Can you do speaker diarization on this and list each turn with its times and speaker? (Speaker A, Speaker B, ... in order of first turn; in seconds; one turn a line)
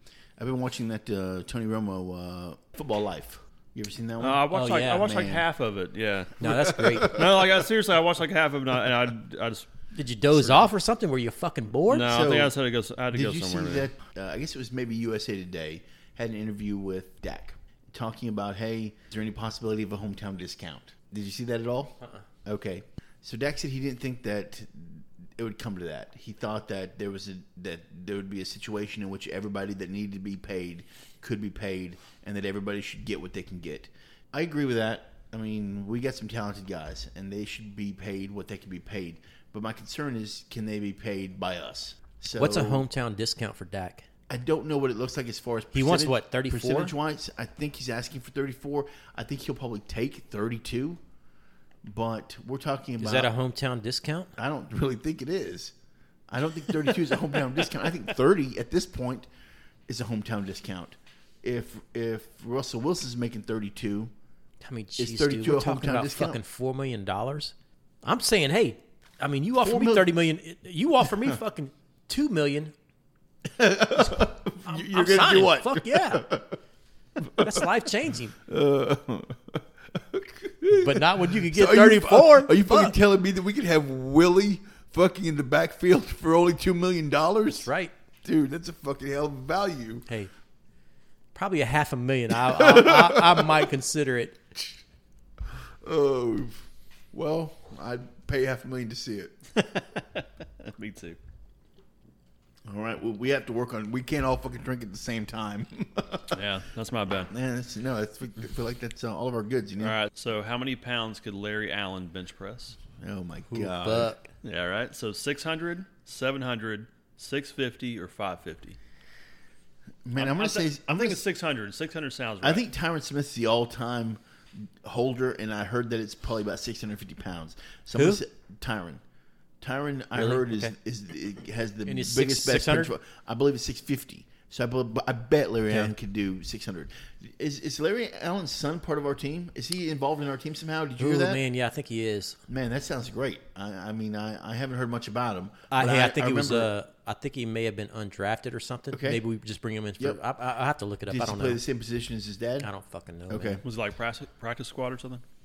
Speaker A: 0.4-5.4
Speaker B: 4.2-6.5
Speaker C: 4.5-5.2
Speaker C: 6.4-7.2
Speaker A: 6.5-7.6
Speaker B: 7.0-10.7
Speaker C: 9.9-12.2
Speaker B: 11.9-13.8
Speaker A: 12.0-12.5
Speaker A: 13.1-42.9
Speaker C: 42.3-44.1
Speaker A: 44.3-51.0
Speaker C: 45.7-46.9
Speaker A: 51.9-53.3
Speaker C: 53.0-54.3
Speaker A: 54.4-55.7
Speaker A: 56.3-59.3
Speaker A: 59.9-64.1
Speaker C: 64.6-72.7
Speaker A: 65.0-66.4
Speaker A: 69.6-70.1
Speaker A: 73.5-76.5
Speaker C: 74.0-76.3
Speaker A: 77.2-77.6
Speaker C: 77.3-78.3
Speaker A: 78.5-87.7
Speaker C: 80.7-83.0
Speaker C: 87.5-87.9
Speaker A: 88.2-90.1
Speaker C: 90.1-90.3
Speaker C: 91.3-94.4
Speaker A: 92.4-93.7
Speaker A: 95.8-99.3
Speaker B: 99.5-101.2
Speaker A: 102.7-106.4
Speaker B: 106.3-107.3
Speaker A: 107.3-110.0
Speaker B: 109.8-112.8
Speaker A: 113.0-114.2
Speaker C: 113.5-114.3
Speaker B: 114.4-118.8
Speaker A: 120.0-121.2
Speaker B: 120.2-122.6
Speaker A: 122.4-129.0
Speaker A: 129.6-141.4
Speaker C: 130.1-130.7
Speaker C: 131.8-132.9
Speaker C: 141.0-142.4
Speaker A: 142.5-146.7
Speaker C: 145.7-151.6
Speaker A: 148.9-149.2
Speaker A: 151.1-152.7
Speaker C: 152.6-153.6
Speaker A: 153.3-153.6
Speaker B: 153.6-155.2